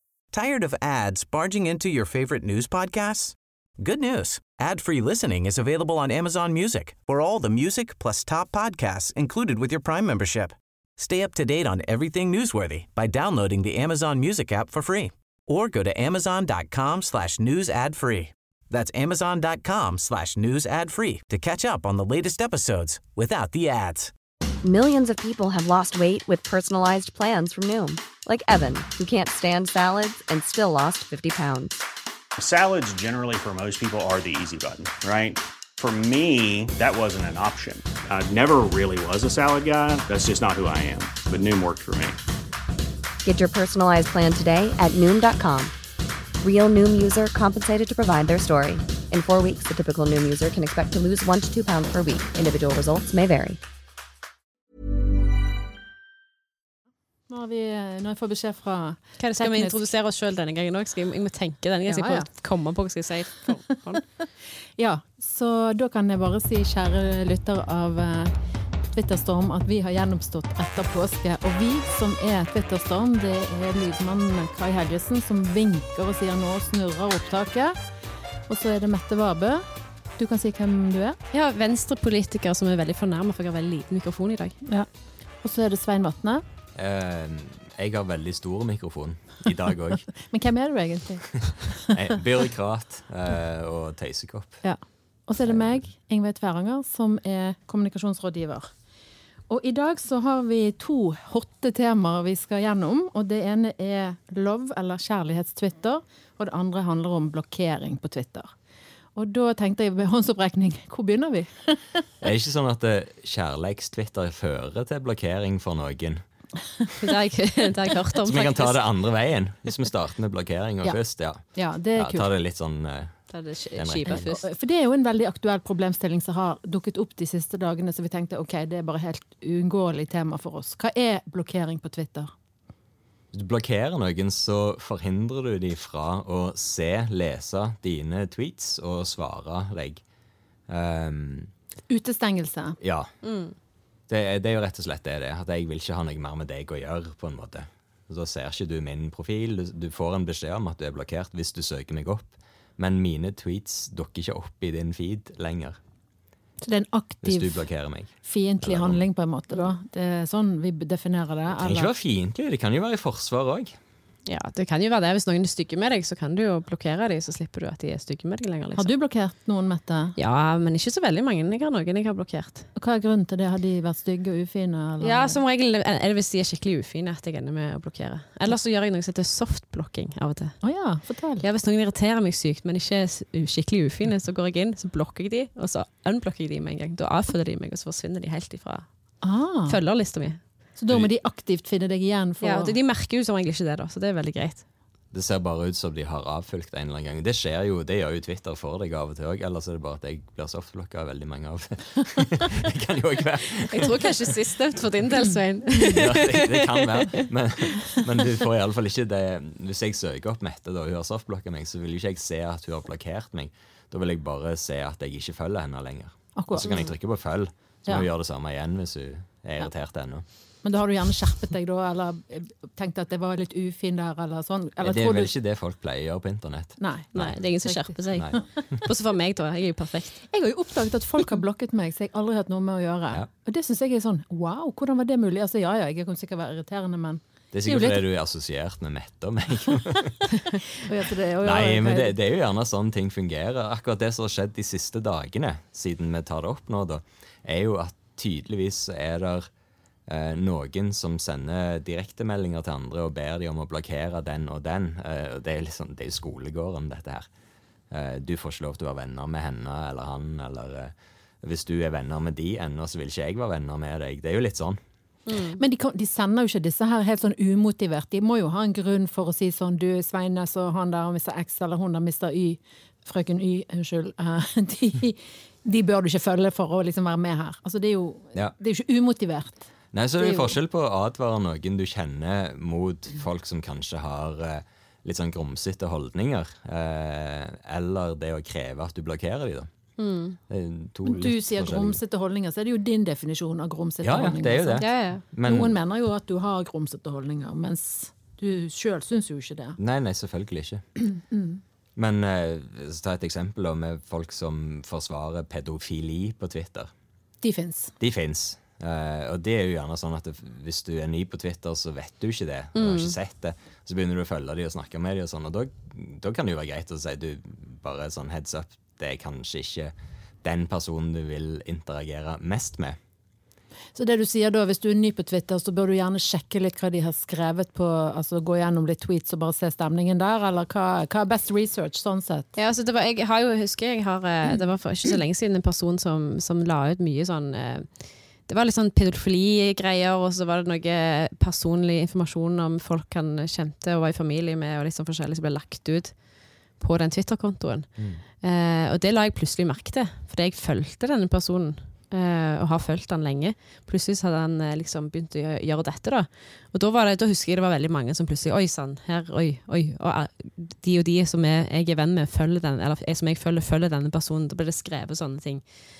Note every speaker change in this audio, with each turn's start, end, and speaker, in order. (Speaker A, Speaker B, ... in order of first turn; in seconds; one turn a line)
Speaker A: 0.3-24.1
Speaker B: 24.6-31.9
Speaker C: 32.4-42.2
Speaker B: 43.2-45.7
Speaker B: 46.4-53.6
Speaker D: 57.3-59.9
Speaker E: 59.2-64.0
Speaker D: 61.9-62.3
Speaker D: 64.8-68.3
Speaker D: 68.9-77.8
Speaker D: 78.5-79.7
Speaker D: 80.2-81.2
Speaker E: 81.3-84.6
Speaker D: 85.4-86.4
Speaker F: 86.8-90.1
Speaker D: 90.1-92.1
Speaker F: 91.9-94.6
Speaker D: 94.6-98.7
Speaker F: 95.5-95.8
Speaker D: 99.5-108.5
Speaker D: 109.2-112.0
Speaker F: 112.2-116.2
Speaker E: 117.0-118.8
Speaker F: 118.2-121.4
Speaker D: 121.5-122.3
Speaker F: 122.0-123.2
Speaker E: 123.3-124.4
Speaker F: 123.8-124.2
Speaker D: 124.1-132.3
Speaker F: 133.3-140.0
Speaker F: 140.7-141.5
Speaker D: 141.9-142.8
Speaker F: 142.8-143.1
Speaker E: 143.2-143.5
Speaker F: 144.1-155.8
Speaker D: 156.6-157.6
Speaker F: 157.2-159.0
Speaker D: 158.2-161.9
Speaker F: 161.5-163.8
Speaker E: 164.2-168.9
Speaker D: 168.8-170.2
Speaker E: 170.2-172.7
Speaker D: 172.8-175.4
Speaker E: 175.0-180.6
Speaker D: 180.6-181.4
Speaker E: 181.4-188.8
Speaker D: 189.2-189.8
Speaker E: 189.7-190.4
Speaker D: 190.8-192.8
Speaker E: 192.4-194.6
Speaker F: 195.1-204.2
Speaker E: 203.7-207.3
Speaker F: 205.8-220.2
Speaker D: 216.3-216.8
Speaker D: 220.6-225.3
Speaker F: 224.8-227.4
Speaker D: 226.8-227.1
Speaker E: 227.1-230.2
Speaker D: 227.6-228.4
Speaker D: 230.3-238.0
Speaker F: 237.5-240.2
Speaker D: 240.4-242.1
Speaker F: 241.4-249.5
Speaker F: 250.1-257.3
Speaker F: 257.9-264.8
Speaker E: 265.3-265.6
Speaker D: 265.6-279.6
Speaker F: 279.9-289.7
Speaker D: 280.2-280.6
Speaker E: 290.0-290.4
Speaker F: 290.5-292.0
Speaker D: 291.1-294.9
Speaker F: 294.0-295.8
Speaker E: 294.8-295.2
Speaker D: 295.4-299.8
Speaker F: 299.8-300.8
Speaker D: 301.3-301.6
Speaker F: 301.9-306.9
Speaker D: 307.4-307.9
Speaker F: 308.0-323.0
Speaker E: 312.8-313.1
Speaker D: 323.9-332.5
Speaker E: 332.6-337.9
Speaker E: 338.5-346.1
Speaker E: 346.8-347.9
Speaker E: 348.4-365.6